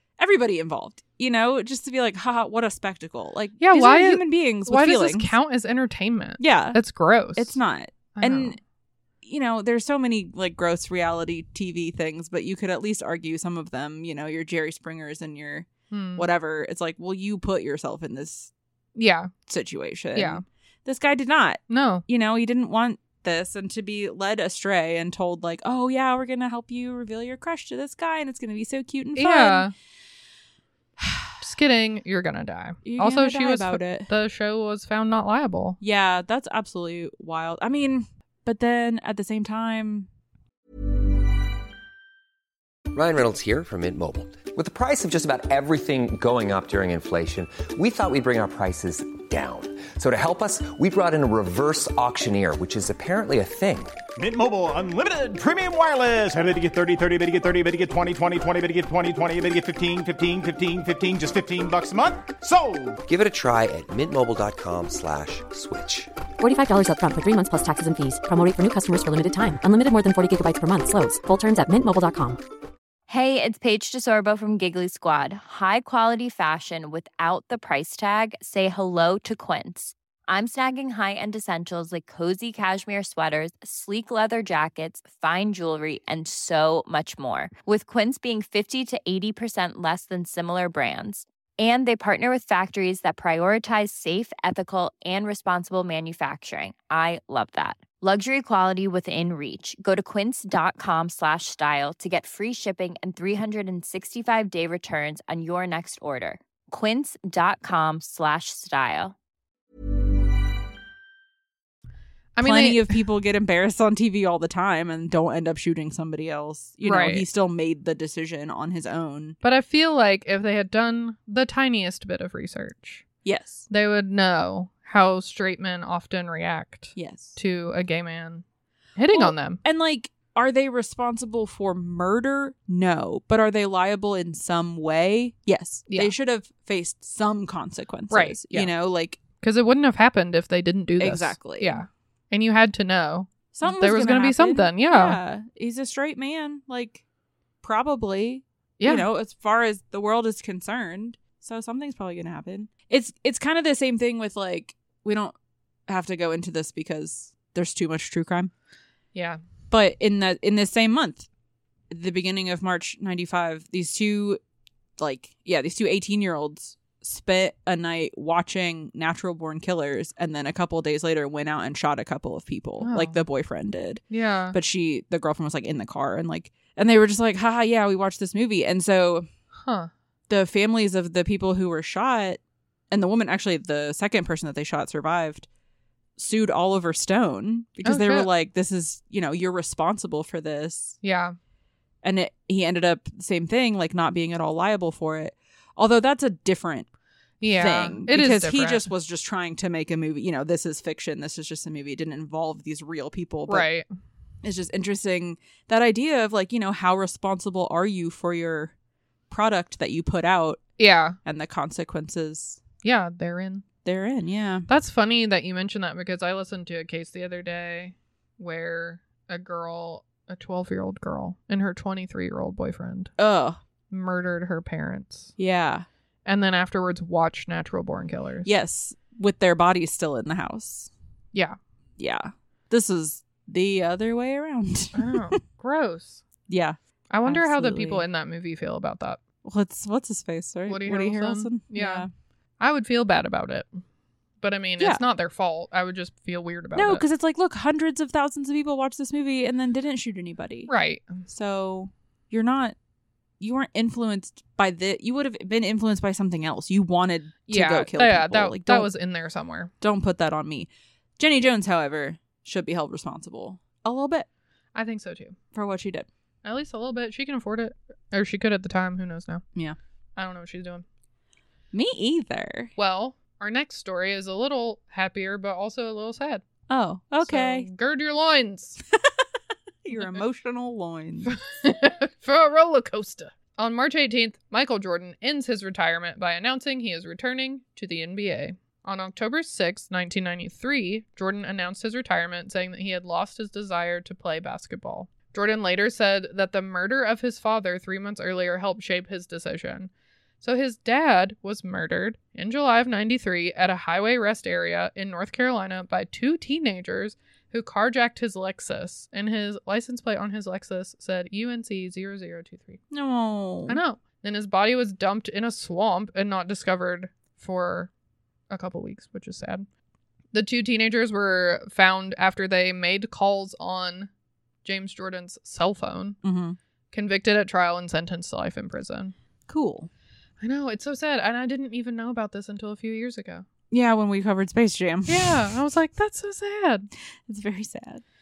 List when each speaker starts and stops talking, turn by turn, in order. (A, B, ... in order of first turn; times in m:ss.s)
0:00.2-0:05.3 A
0:03.6-0:07.6 B
0:06.4-0:06.8 A
0:07.4-0:08.6 A
0:08.2-0:08.6 B
0:09.2-0:18.5 A
0:15.9-0:16.2 B
0:19.0-0:19.3 B
0:19.5-0:29.7 A
0:20.1-0:20.4 B
0:21.7-0:22.0 B
0:29.2-0:29.7 B
0:31.0-0:31.3 A
0:31.4-0:35.8 B
0:32.8-0:34.1 A
0:35.8-0:40.1 A
0:42.9-0:53.9 C
0:54.2-1:03.0 D
1:03.0-1:06.1 C
1:06.4-1:12.4 E
1:13.1-1:49.1 F
1:52.4-1:53.0 B
1:52.4-1:59.4 A
1:56.8-1:57.2 B
1:59.4-2:03.0 B
2:03.2-2:03.7 A
2:03.7-2:08.4 B
2:07.0-2:07.4 A
2:09.0-2:09.6 B
2:09.1-2:19.2 A
2:18.1-2:18.7 B
2:19.4-2:25.2 B
2:21.0-2:21.8 A
2:23.5-2:27.0 A
2:27.6-2:35.3 A
2:28.8-2:29.1 B
2:35.9-2:38.5 A
2:39.1-2:39.4 B
2:39.7-2:41.3 A
2:41.9-2:44.4 A
2:45.0-2:59.3 A
2:52.8-2:53.2 B
2:54.1-2:54.6 B
2:59.5-2:59.9 B
3:00.3-3:02.4 A
3:02.9-3:05.5 A
3:06.2-3:11.0 A
3:07.8-3:08.3 B
3:11.0-3:11.4 B
3:12.0-3:16.9 A
3:17.4-3:18.9 B
3:17.5-3:23.7 A
3:23.5-3:23.9 B
3:24.4-3:28.7 A
3:29.3-3:30.6 A
3:30.8-3:31.2 B
3:31.2-3:32.6 A
3:32.8-3:33.6 B
3:33.8-3:34.7 A
3:34.7-3:43.1 B
3:43.2-3:43.6 A
3:43.9-3:45.3 B
3:45.4-3:45.8 A
3:46.2-3:48.5 B
3:48.4-3:50.9 A
3:52.0-3:55.4 A
3:54.9-3:56.2 B
3:56.5-3:58.0 A
3:57.1-3:59.2 B
3:59.4-4:02.1 A
4:00.7-4:02.1 B
4:02.6-4:03.8 B
4:04.4-4:07.0 B
4:06.8-4:10.7 A
4:10.7-4:11.2 B
4:11.3-4:12.7 A
4:13.4-4:18.9 A
4:17.5-4:19.7 B
4:19.8-4:24.3 A
4:24.7-4:25.4 B
4:25.5-4:26.1 A
4:26.4-4:29.4 B
4:30.2-4:30.8 B
4:31.7-4:32.7 A
4:32.8-4:36.4 B
4:36.7-4:37.7 A
4:37.2-4:38.8 B
4:39.8-4:41.3 A
4:39.9-4:40.2 B
4:41.3-4:59.9 B
5:00.4-5:12.8 B
5:12.9-5:13.8 A
5:13.7-5:17.9 B
5:18.5-5:19.7 B
5:20.3-5:24.1 B
5:24.6-5:26.2 B
5:26.2-5:26.6 A
5:26.9-5:29.1 B
5:29.5-5:29.9 A
5:30.4-5:33.4 B
5:33.7-5:35.5 A
5:35.1-5:36.9 B
5:37.3-5:38.0 A